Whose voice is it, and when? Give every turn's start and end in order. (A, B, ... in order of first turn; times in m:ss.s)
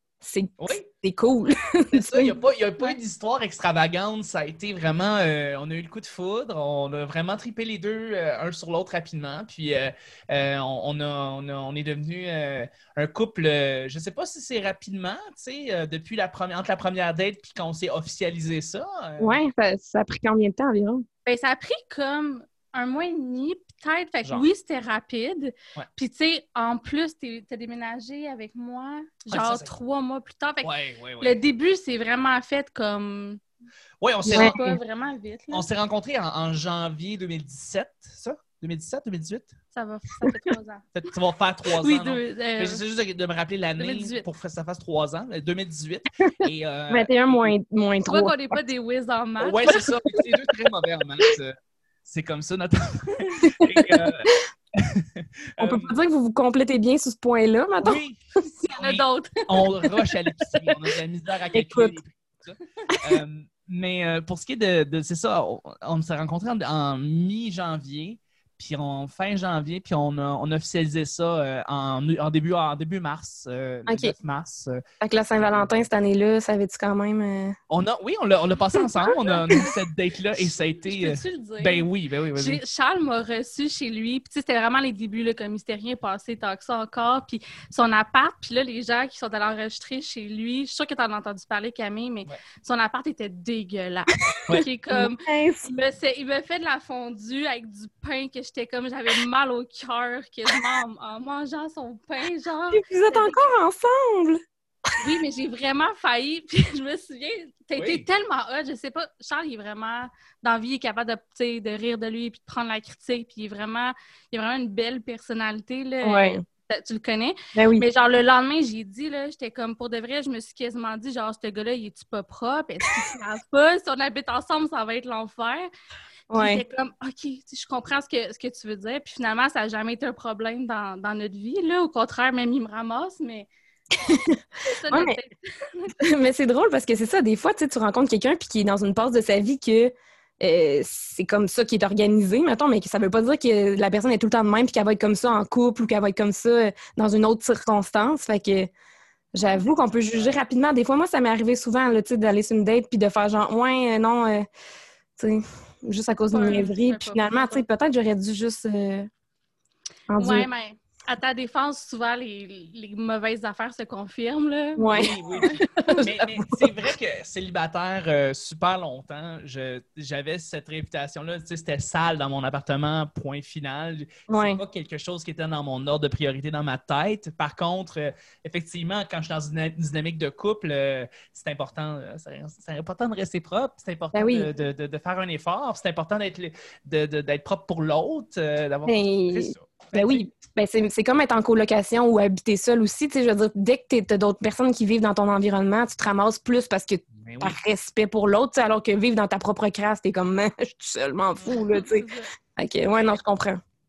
0:00.2-0:02.4 A
0:00.6-0:00.9 B
0:01.9-0:19.4 B
0:19.2-0:21.0 A
0:21.3-0:33.4 C
0:29.3-0:29.7 B
0:30.6-0:31.4 B
0:34.0-0:34.6 B
0:34.3-0:34.8 A
0:34.3-0:35.7 C
0:35.5-0:39.5 B
0:39.7-0:40.8 C
0:41.0-0:47.5 B
0:41.8-0:42.8 C
0:43.8-0:44.2 C
0:46.9-0:48.6 A
0:48.1-0:49.9 C
0:49.4-0:55.9 B
0:49.8-0:50.2 A
0:53.4-0:54.3 A
0:55.6-0:58.0 A
0:57.8-1:14.8 B
0:58.7-0:59.7 C
1:01.5-1:01.9 A
1:02.9-1:03.2 A
1:13.9-1:14.2 A
1:15.0-1:17.6 A
1:15.4-1:15.8 B
1:17.7-1:22.6 B
1:18.8-1:19.7 A
1:20.8-1:43.5 C
1:34.4-1:35.7 A
1:42.7-1:44.4 A
1:45.0-2:05.7 C
1:47.8-1:48.0 B
1:56.0-1:56.4 A
1:57.6-1:57.8 A
2:06.3-2:06.6 A
2:06.3-2:13.5 C
2:14.0-2:14.4 A
2:14.1-2:16.0 C
2:14.9-2:15.2 A
2:16.0-2:28.7 A
2:29.3-2:34.5 A
2:30.1-2:30.4 B
2:35.2-2:39.1 A
2:36.3-2:37.6 C
2:40.1-2:40.5 A
2:40.2-2:46.0 C
2:44.8-2:45.1 A
2:44.9-3:10.3 B
2:45.8-2:46.7 A
2:54.3-2:54.6 A
3:04.1-3:04.5 A
3:08.9-3:23.6 A
3:17.2-3:17.6 B
3:21.5-3:22.3 C